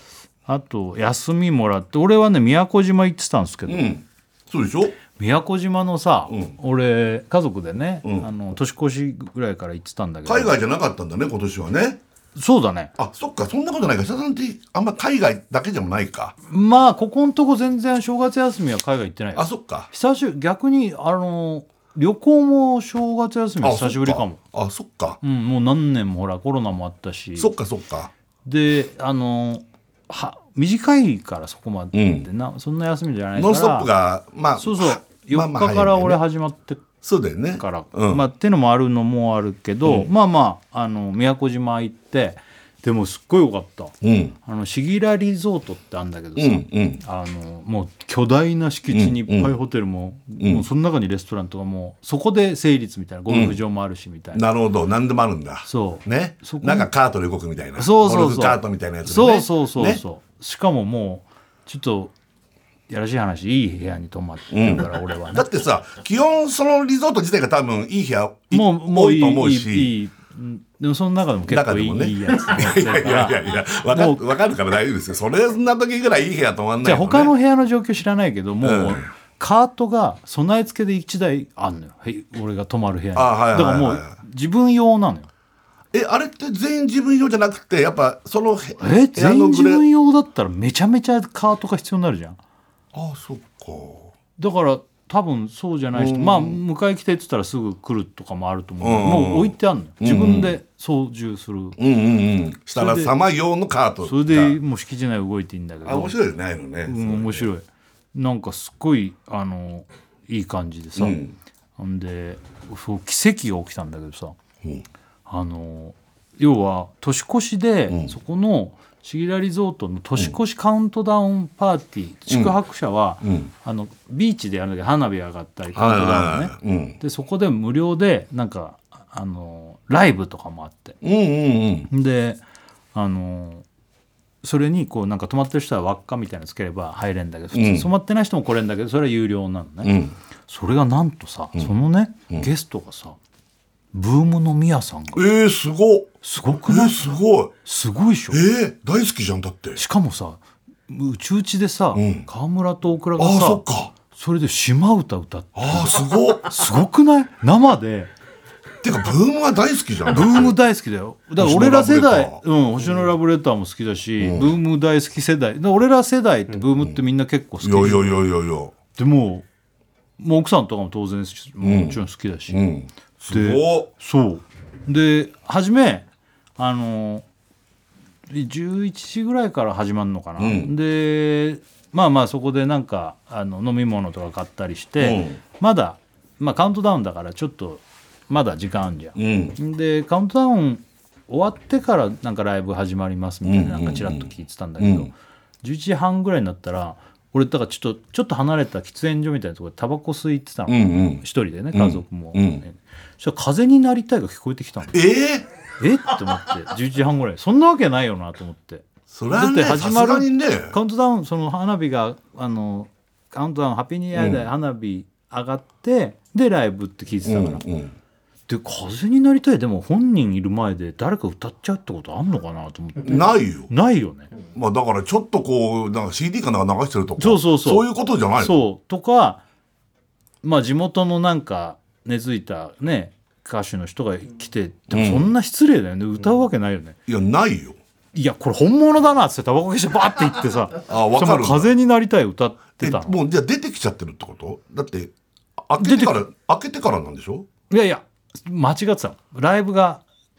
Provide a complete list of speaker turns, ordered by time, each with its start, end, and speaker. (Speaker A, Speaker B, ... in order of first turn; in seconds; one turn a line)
Speaker A: 0.5-3.9
Speaker B: 3.7-5.0
Speaker A: 5.1-10.6
Speaker B: 6.3-6.5
Speaker B: 8.0-8.3
Speaker B: 10.2-12.0
Speaker A: 12.3-12.9
Speaker B: 13.0-16.3
Speaker A: 16.5-24.4
Speaker B: 19.3-19.9
Speaker B: 23.6-25.2
Speaker A: 25.2-27.5
Speaker B: 27.4-28.1
Speaker A: 28.4-33.9
Speaker B: 31.9-32.3
Speaker B: 33.4-36.2
Speaker A: 34.6-36.8
Speaker B: 37.0-38.2
Speaker A: 37.6-54.5
Speaker B: 39.8-40.1
Speaker B: 44.0-44.3
Speaker B: 46.4-47.0
Speaker B: 48.9-49.5
Speaker B: 50.4-50.6
Speaker B: 53.3-53.6
Speaker B: 54.3-60.0
Speaker A: 55.6-56.9
Speaker A: 57.8-62.1
Speaker A: 62.9-65.5
Speaker B: 64.5-69.9
Speaker A: 68.5-74.2
Speaker B: 71.5-77.3
Speaker A: 76.8-85.3
Speaker B: 78.6-79.1
Speaker B: 83.2-84.1
Speaker B: 85.9-89.9
Speaker A: 88.8-92.4
Speaker B: 92.9-94.1
Speaker A: 94.4-101.8
Speaker B: 95.9-96.6
Speaker B: 98.8-100.6
Speaker B: 101.8-104.6
Speaker A: 102.7-103.1
Speaker A: 104.0-106.2
Speaker B: 105.8-107.5
Speaker A: 106.8-111.2
Speaker B: 111.0-111.3
Speaker A: 111.8-114.3
Speaker A: 115.2-131.0
Speaker B: 117.9-118.1
Speaker B: 122.3-122.5
Speaker B: 123.2-123.5
Speaker B: 125.7-127.0
Speaker B: 131.0-131.9
Speaker A: 131.9-132.4
Speaker A: 132.9-133.6
Speaker A: 134.4-143.2
Speaker B: 137.5-137.9
Speaker B: 139.8-140.1
Speaker A: 143.9-145.3
Speaker B: 145.1-147.5
Speaker A: 146.2-147.0
Speaker A: 147.6-148.4
Speaker B: 148.3-149.8
Speaker A: 149.8-158.1
Speaker B: 151.9-152.3
Speaker B: 153.2-153.9
Speaker B: 155.5-156.5
Speaker B: 158.8-160.6
Speaker A: 160.1-168.1
Speaker B: 161.4-162.4
Speaker B: 164.2-164.5
Speaker B: 166.7-167.0
Speaker B: 167.6-168.7
Speaker A: 168.9-169.5
Speaker A: 170.2-172.6
Speaker B: 171.6-173.9
Speaker A: 173.3-177.2
Speaker A: 178.3-205.0
Speaker B: 180.4-180.7
Speaker B: 185.0-185.4
Speaker B: 189.2-189.6
Speaker B: 193.4-195.1
Speaker B: 200.7-202.6
Speaker B: 204.9-205.4
Speaker A: 205.8-217.6
Speaker B: 209.1-210.8
Speaker B: 214.1-214.5
Speaker B: 217.2-217.9
Speaker A: 218.5-224.3
Speaker B: 223.0-223.7
Speaker B: 224.5-228.6
Speaker A: 227.2-229.4
Speaker A: 230.4-237.0
Speaker B: 234.9-235.3
Speaker B: 237.1-237.8
Speaker A: 238.1-243.2
Speaker B: 240.9-241.7
Speaker B: 242.8-247.5
Speaker A: 245.8-246.2
Speaker A: 247.7-250.0